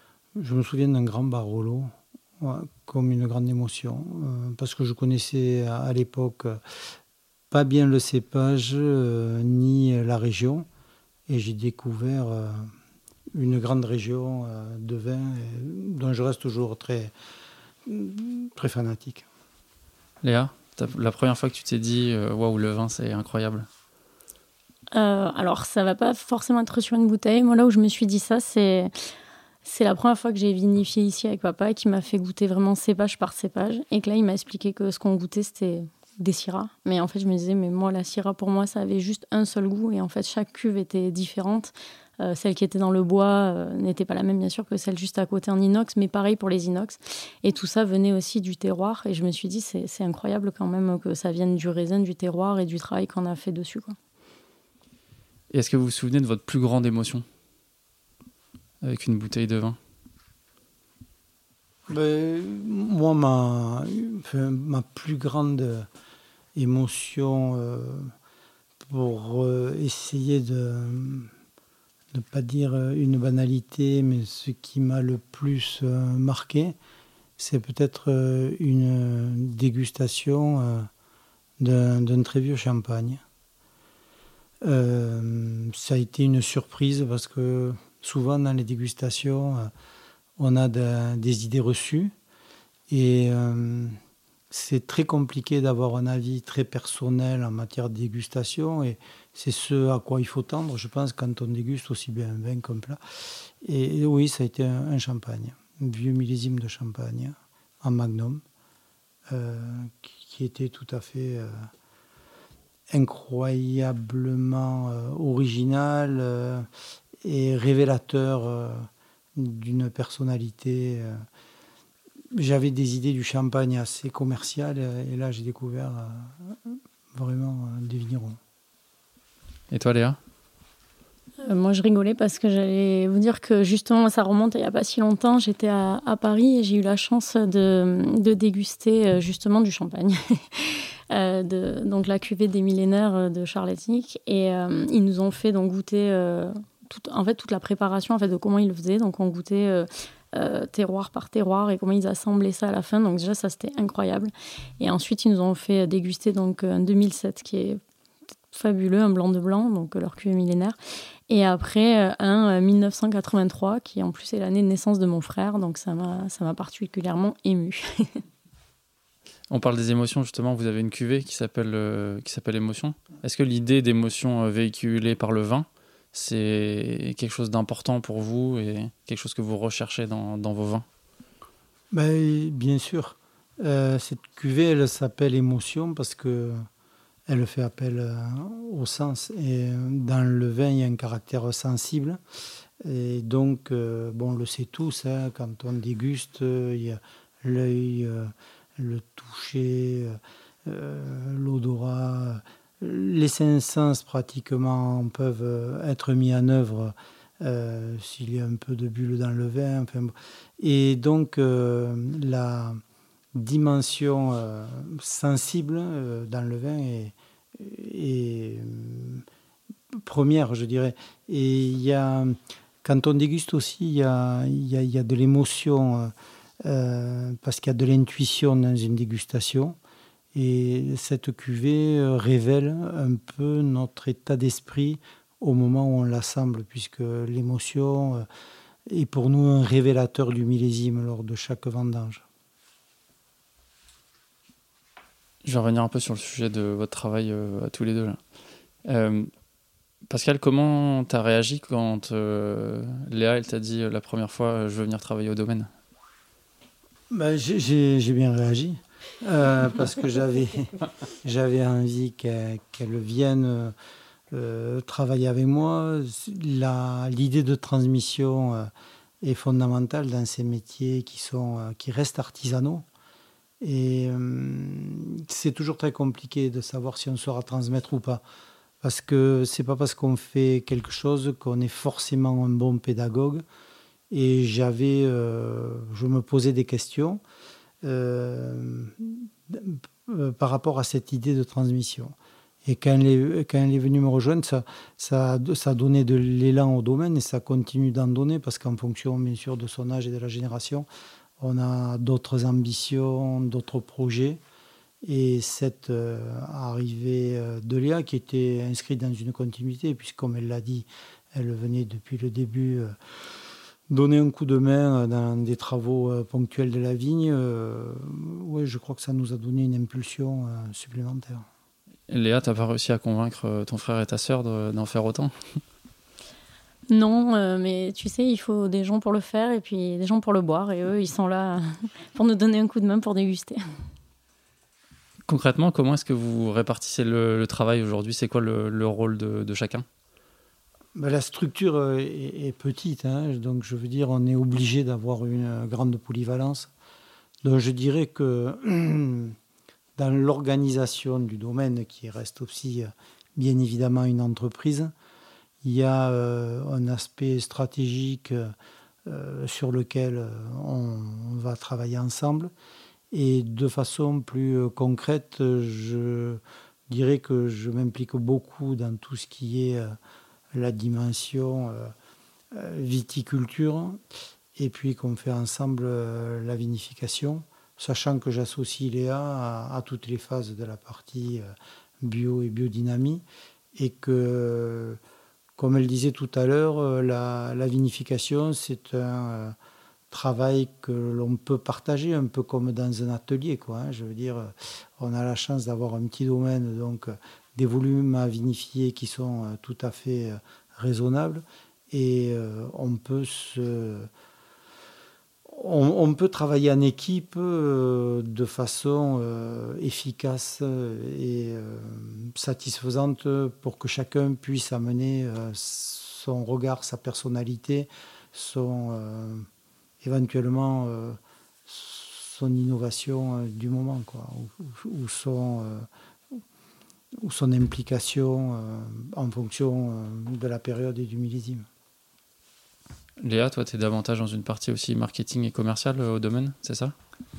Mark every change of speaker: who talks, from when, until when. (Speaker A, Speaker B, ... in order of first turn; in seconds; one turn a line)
Speaker A: 0.4-6.6
Speaker A: 7.5-10.7
Speaker A: 11.3-12.7
Speaker A: 13.3-17.1
Speaker A: 17.9-19.2
Speaker B: 20.2-23.7
Speaker C: 24.9-28.9
Speaker C: 29.6-54.0
Speaker B: 55.5-57.2
Speaker B: 58.8-59.8
Speaker A: 61.9-65.9
Speaker A: 66.5-68.1
Speaker A: 68.9-71.3
Speaker A: 72.1-76.8
Speaker A: 77.4-80.9
Speaker A: 81.6-83.2
Speaker A: 84.6-89.7
Speaker A: 90.4-92.1
Speaker A: 92.9-94.0
Speaker A: 94.5-108.4
Speaker A: 109.3-111.7
Speaker A: 112.9-116.7
Speaker A: 117.2-121.2
Speaker A: 122.3-128.4
Speaker B: 129.7-130.2
Speaker C: 131.4-157.8
Speaker C: 158.5-160.8
Speaker C: 161.3-168.2
Speaker B: 169.5-180.8
Speaker A: 181.9-186.7
Speaker A: 187.3-192.2
Speaker A: 192.8-212.8
Speaker A: 213.3-219.2
Speaker A: 220.1-229.8
Speaker A: 230.3-238.3
Speaker A: 238.9-242.2
Speaker B: 245.4-248.2
Speaker B: 248.8-249.3
Speaker B: 250.1-255.7
Speaker A: 257.1-263.7
Speaker A: 264.3-268.7
Speaker A: 269.2-272.8
Speaker A: 273.6-278.2
Speaker A: 278.8-283.4
Speaker A: 284.1-287.2
Speaker A: 287.8-292.1
Speaker A: 292.6-300.9
Speaker A: 301.4-304.4
Speaker A: 305.0-312.9
Speaker A: 313.9-321.5
Speaker B: 322.1-325.3
Speaker C: 326.9-333.6
Speaker B: 335.3-339.9
Speaker A: 340.9-346.7
Speaker A: 347.4-349.4
Speaker A: 350.0-354.9
Speaker A: 355.6-358.5
Speaker A: 359.1-362.5
Speaker A: 363.1-370.0
Speaker A: 370.5-371.9
Speaker A: 372.5-374.0
Speaker A: 374.6-383.2
Speaker A: 383.8-385.0
Speaker A: 385.6-389.5
Speaker A: 390.1-404.1
Speaker A: 405.4-419.5
Speaker A: 420.0-426.4
Speaker A: 427.2-431.6
Speaker B: 433.2-436.9